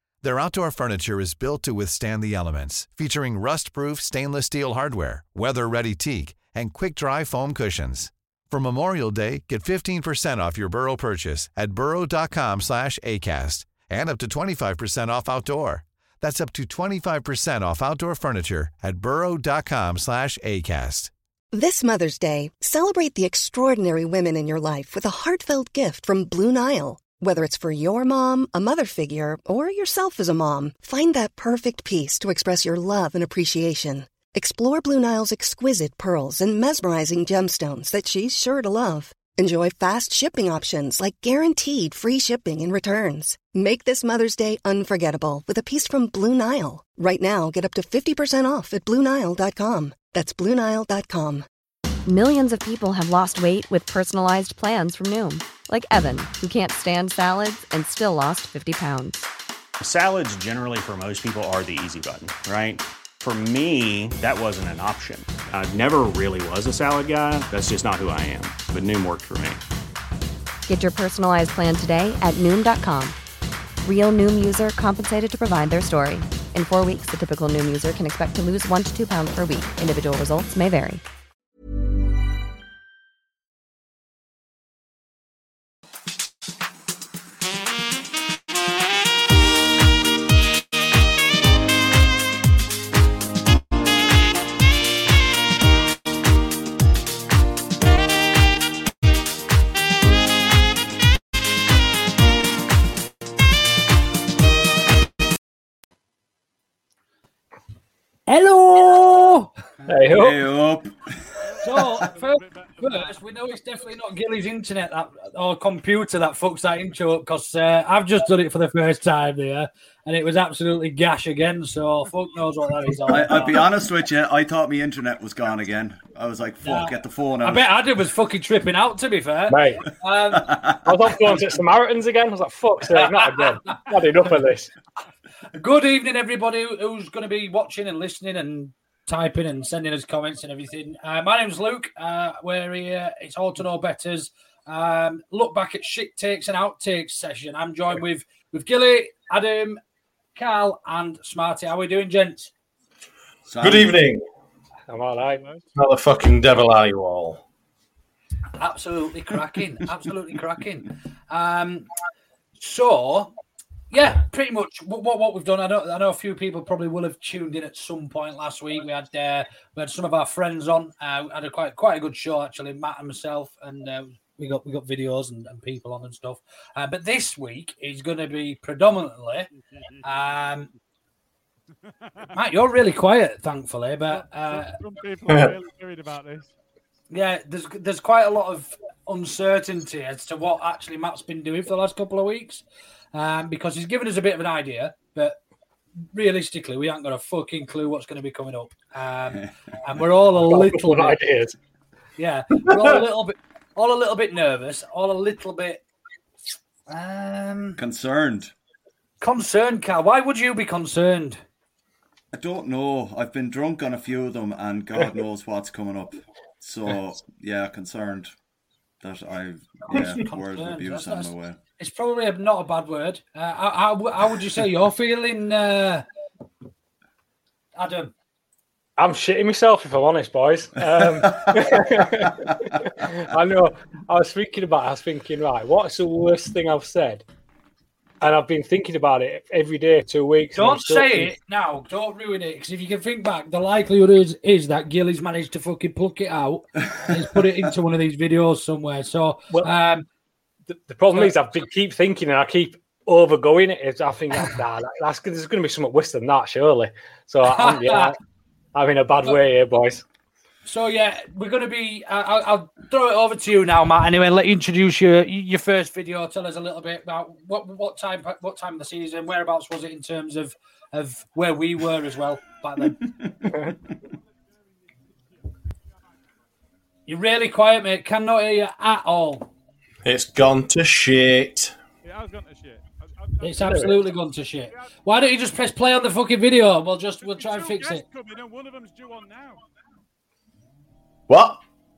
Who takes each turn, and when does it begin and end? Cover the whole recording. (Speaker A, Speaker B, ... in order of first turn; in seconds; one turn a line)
Speaker A: 0.2-21.1
Speaker B: 21.5-51.5
Speaker C: 52.1-59.3
Speaker D: 59.8-69.6
Speaker C: 70.7-73.2
Speaker C: 73.8-81.0
Speaker E: 108.3-109.5
Speaker F: 109.9-110.4
Speaker G: 110.1-110.9
Speaker H: 111.5-113.2
Speaker E: 111.6-123.7
Speaker G: 123.1-127.7
Speaker E: 126.6-130.5
Speaker F: 129.5-129.8
Speaker G: 130.3-130.8
Speaker F: 130.8-134.7
Speaker E: 132.9-133.8
Speaker E: 135.6-149.8
Speaker E: 150.3-152.5
Speaker G: 153.5-154.0
Speaker I: 153.6-154.2
Speaker F: 154.9-155.4
Speaker H: 155.2-155.7
Speaker I: 155.8-157.4
Speaker E: 158.6-161.9
Speaker E: 162.6-163.3
Speaker E: 163.9-179.5
Speaker E: 180.0-180.7
Speaker H: 182.1-182.4
Speaker E: 182.3-184.8
Speaker H: 184.1-186.5
Speaker I: 185.3-185.6
Speaker E: 187.1-192.6
Speaker E: 193.1-195.4
Speaker E: 196.1-201.2
Speaker F: 200.4-201.6
Speaker E: 202.2-205.8
Speaker E: 206.9-207.8
Speaker G: 207.8-208.5
Speaker E: 209.2-211.4
Speaker G: 212.3-218.3
Speaker G: 219.0-221.6
Speaker E: 219.9-226.1
Speaker E: 227.8-228.1
Speaker F: 229.0-237.2
Speaker G: 231.2-231.7
Speaker F: 238.2-241.3
Speaker E: 240.5-250.1
Speaker F: 250.7-258.2
Speaker E: 257.4-258.1
Speaker F: 258.7-260.0
Speaker E: 260.6-273.1
Speaker E: 277.1-279.5
Speaker I: 280.1-281.7
Speaker H: 282.0-284.1
Speaker E: 283.4-288.1
Speaker F: 283.7-283.9
Speaker H: 284.7-284.9
Speaker H: 287.2-289.6
Speaker I: 291.3-291.6